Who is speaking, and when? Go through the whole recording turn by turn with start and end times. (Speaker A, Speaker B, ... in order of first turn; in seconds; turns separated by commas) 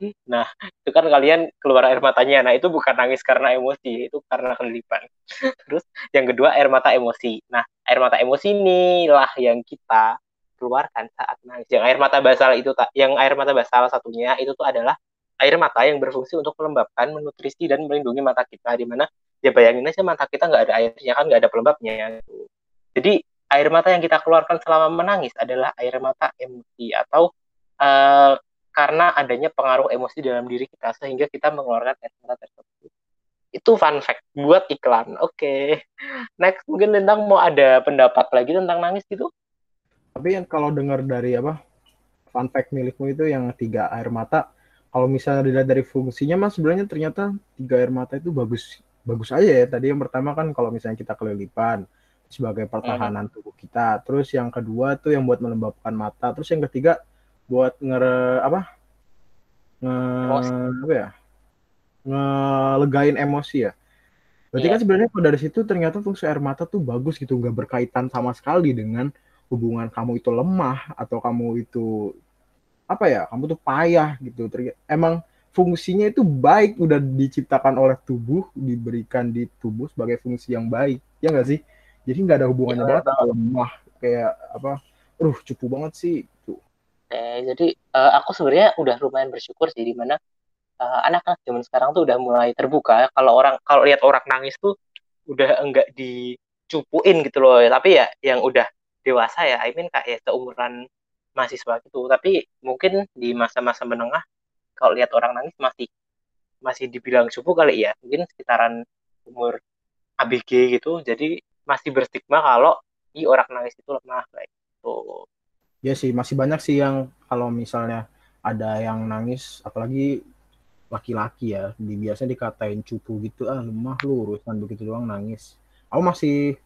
Speaker A: 0.3-5.0, Speaker A: 5.7-10.1, Speaker A: 10.6-22.4, Speaker A: 22.9-27.3, Speaker A: 27.8-32.9, Speaker A: 33.6-35.6, Speaker A: 36.4-39.3, Speaker B: 40.1-41.5, Speaker B: 42.3-44.4, Speaker B: 44.9-56.9, Speaker A: 52.8-53.1, Speaker B: 57.5-58.6, Speaker B: 59.9-61.1, Speaker B: 62.1-63.7, Speaker B: 64.5-71.9, Speaker B: 72.9-86.6, Speaker A: 82.7-83.2, Speaker A: 87.1-90.2, Speaker A: 90.8-94.7, Speaker A: 95.3-96.2, Speaker A: 96.7-100.7, Speaker A: 101.4-104.2, Speaker A: 104.8-105.9, Speaker A: 106.6-108.7, Speaker A: 109.3-109.5, Speaker A: 110.2-115.0, Speaker B: 115.8-120.1, Speaker B: 120.9-126.3